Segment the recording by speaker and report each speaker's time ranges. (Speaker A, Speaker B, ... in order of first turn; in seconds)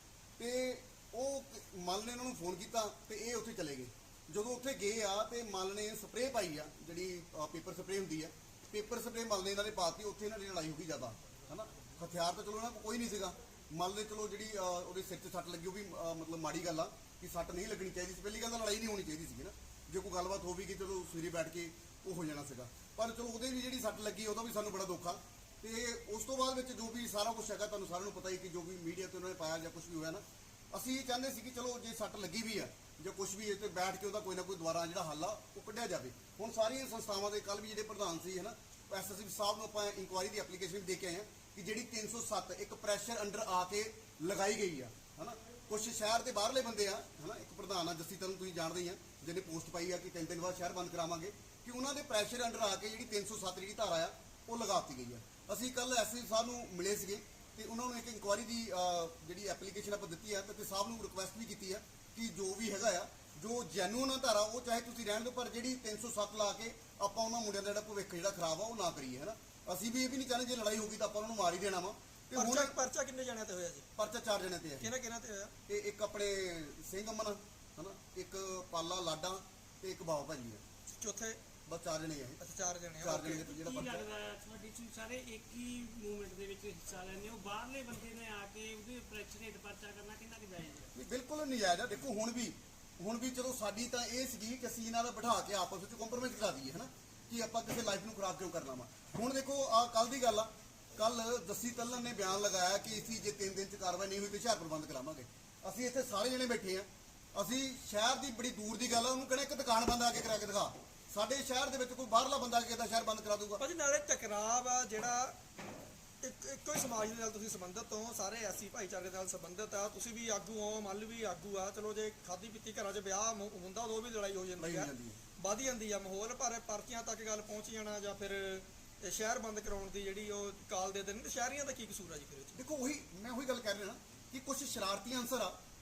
Speaker A: 0.4-72.8, 74.0-74.9, 75.7-80.6, 81.7-82.4, 83.0-84.1, 90.9-113.6, 124.6-125.2, 132.5-135.6
Speaker B: 72.3-73.9, 74.8-75.5, 80.9-81.4, 82.4-83.5, 113.6-115.4, 116.2-132.6
Speaker C: 83.6-90.8